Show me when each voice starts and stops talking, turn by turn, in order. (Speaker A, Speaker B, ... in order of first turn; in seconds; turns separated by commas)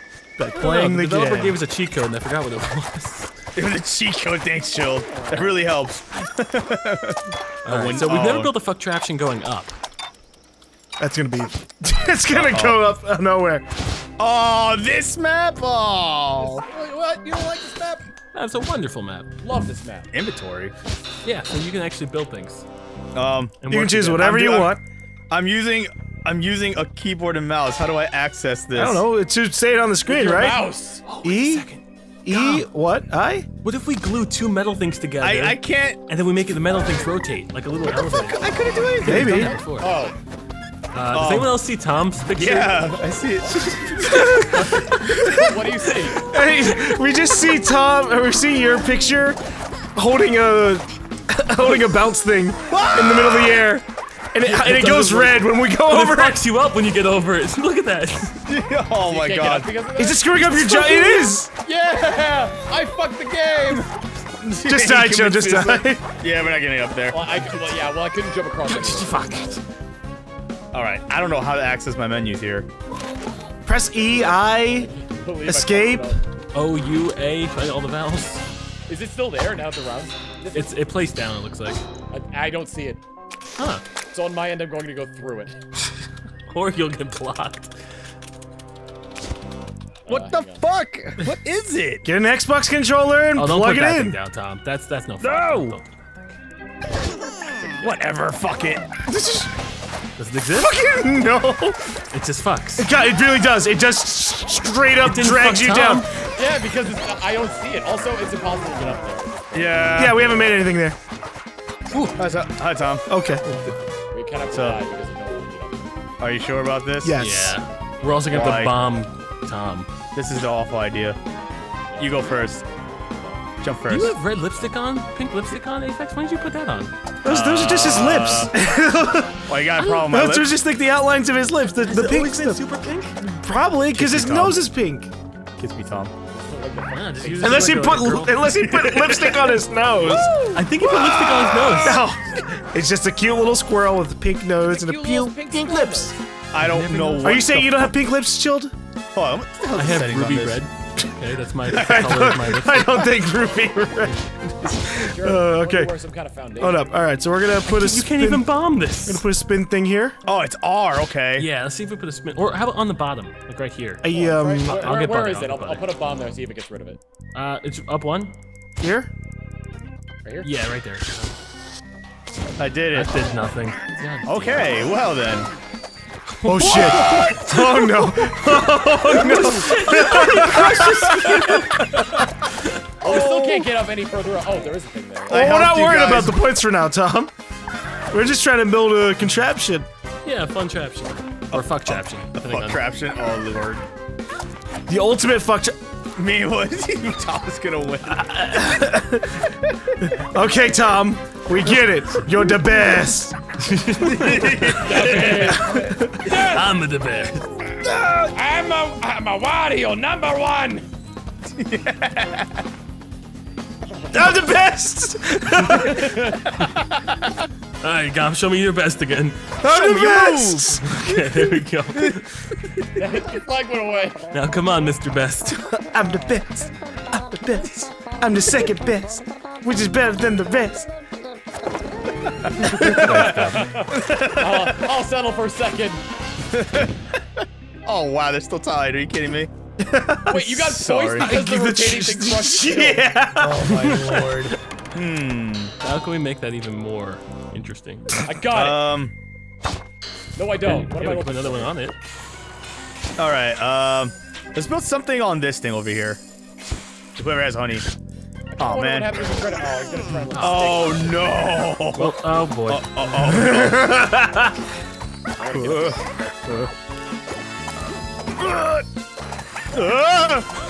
Speaker A: 0.4-1.6, Speaker B: 0.6-3.3, Speaker C: 3.6-8.5, Speaker D: 5.3-5.5, Speaker B: 7.7-9.7, Speaker A: 11.0-13.7, Speaker C: 12.3-12.8, Speaker C: 14.2-16.6, Speaker D: 16.4-18.1, Speaker B: 18.3-19.3, Speaker D: 19.4-20.1, Speaker C: 20.1-20.7, Speaker B: 21.2-22.6, Speaker C: 23.1-23.6, Speaker B: 23.6-24.5, Speaker A: 23.7-24.8, Speaker C: 24.2-24.7, Speaker C: 25.3-29.1, Speaker A: 28.7-30.6, Speaker D: 30.1-31.0, Speaker B: 31.1-32.6, Speaker A: 31.2-31.7, Speaker A: 32.2-33.5, Speaker B: 33.6-40.0, Speaker C: 35.2-36.0, Speaker C: 38.2-39.5, Speaker A: 39.0-39.6, Speaker D: 39.4-40.2, Speaker B: 40.9-43.0, Speaker C: 41.1-41.5, Speaker C: 42.4-44.8, Speaker A: 44.1-45.5, Speaker B: 44.2-44.8, Speaker D: 44.5-46.2, Speaker A: 46.2-49.4, Speaker A: 50.0-56.4, Speaker C: 52.7-53.6, Speaker B: 54.4-58.5, Speaker C: 58.5-59.8, Speaker D: 59.0-63.9, Speaker A: 60.0-61.5, Speaker C: 64.4-67.2, Speaker A: 64.6-66.0, Speaker D: 67.1-69.6, Speaker B: 67.4-67.7, Speaker B: 68.7-69.6, Speaker C: 70.7-72.7, Speaker A: 73.7-74.9, Speaker D: 73.9-76.2, Speaker A: 75.5-76.2, Speaker B: 76.5-78.4, Speaker D: 78.9-80.8, Speaker B: 80.5-81.8, Speaker D: 82.1-83.0, Speaker B: 83.6-83.8, Speaker D: 84.1-85.6, Speaker B: 86.5-87.7, Speaker D: 90.1-90.6, Speaker C: 90.1-92.1, Speaker A: 92.0-94.2, Speaker B: 93.4-96.3, Speaker C: 95.2-95.8, Speaker C: 97.8-99.1, Speaker A: 99.1-99.5, Speaker B: 100.2-100.7, Speaker A: 100.5-101.9, Speaker B: 102.1-102.9, Speaker A: 102.8-106.1, Speaker B: 105.0-106.1, Speaker D: 106.4-110.2, Speaker C: 109.5-110.3, Speaker A: 110.0-111.0, Speaker B: 111.9-112.2, Speaker C: 112.2-113.1, Speaker A: 113.1-113.4, Speaker B: 113.4-113.8, Speaker D: 114.1-115.9, Speaker C: 114.5-114.8, Speaker C: 116.2-117.2, Speaker A: 117.0-117.6, Speaker B: 117.2-119.9, Speaker C: 118.3-118.8, Speaker C: 120.1-121.2, Speaker D: 121.9-123.4, Speaker C: 122.0-122.6, Speaker C: 123.6-124.2, Speaker B: 123.9-126.9, Speaker A: 127.2-132.6, Speaker C: 127.2-128.5, Speaker C: 129.5-130.5, Speaker B: 131.8-133.2, Speaker A: 133.2-135.1, Speaker C: 133.9-134.7, Speaker C: 135.6-136.1, Speaker D: 136.3-137.9, Speaker B: 136.9-138.8, Speaker A: 137.4-140.4, Speaker C: 138.6-142.0, Speaker B: 140.5-142.0, Speaker A: 141.8-146.1, Speaker D: 144.7-146.2, Speaker C: 146.5-147.9, Speaker B: 146.6-147.5, Speaker A: 147.2-148.7, Speaker C: 149.1-150.6, Speaker B: 149.7-153.1, Speaker A: 151.7-155.9, Speaker C: 151.7-152.2, Speaker D: 154.9-157.0, Speaker A: 156.6-158.5, Speaker B: 157.7-159.3, Speaker A: 159.1-160.2, Speaker C: 160.2-161.5, Speaker B: 161.4-164.0, Speaker A: 164.0-164.9, Speaker D: 164.1-167.0, Speaker B: 164.6-165.8, Speaker B: 167.3-168.3, Speaker A: 168.8-169.1, Speaker B: 170.4-171.3, Speaker C: 172.6-173.1, Speaker B: 172.9-174.8, Speaker C: 174.2-175.5, Speaker B: 176.4-177.6, Speaker A: 176.4-182.1, Speaker C: 176.7-177.4, Speaker B: 178.9-182.0, Speaker C: 183.0-183.7, Speaker D: 183.0-185.6, Speaker C: 185.3-186.4, Speaker A: 185.3-187.3, Speaker A: 188.1-189.9, Speaker B: 190.2-192.8, Speaker C: 191.5-193.8, Speaker A: 194.9-195.8, Speaker C: 196.2-198.9, Speaker A: 198.5-199.4, Speaker C: 199.5-199.9, Speaker A: 200.0-203.4, Speaker B: 203.6-205.5, Speaker C: 204.0-205.9, Speaker D: 204.8-206.7, Speaker A: 205.8-206.1, Speaker B: 206.2-207.5, Speaker C: 207.8-208.3, Speaker D: 208.2-210.9, Speaker C: 211.6-212.6, Speaker A: 214.1-216.2, Speaker C: 215.6-216.8, Speaker D: 215.9-216.4, Speaker B: 217.8-219.5, Speaker A: 219.6-221.1, Speaker C: 219.6-221.2, Speaker B: 220.8-222.3, Speaker D: 223.0-224.3, Speaker B: 224.3-225.6, Speaker A: 225.8-230.9, Speaker C: 232.4-234.8, Speaker A: 232.6-233.7, Speaker D: 232.7-236.0, Speaker B: 233.2-233.6, Speaker C: 236.5-239.5, Speaker A: 239.8-240.6, Speaker D: 240.3-243.1, Speaker C: 240.6-241.3, Speaker A: 241.2-243.7, Speaker C: 243.4-245.7, Speaker B: 243.6-244.6, Speaker B: 245.8-248.2, Speaker D: 248.2-248.9, Speaker C: 248.5-249.1, Speaker D: 250.4-251.7, Speaker B: 250.7-252.0, Speaker C: 253.2-256.2, Speaker C: 257.2-257.9, Speaker D: 258.5-261.4, Speaker C: 258.6-259.2, Speaker B: 260.3-260.8, Speaker C: 260.4-264.1, Speaker B: 261.9-263.0, Speaker A: 263.2-264.6, Speaker D: 265.4-266.0, Speaker C: 265.5-266.7, Speaker C: 268.4-268.9, Speaker C: 269.7-270.5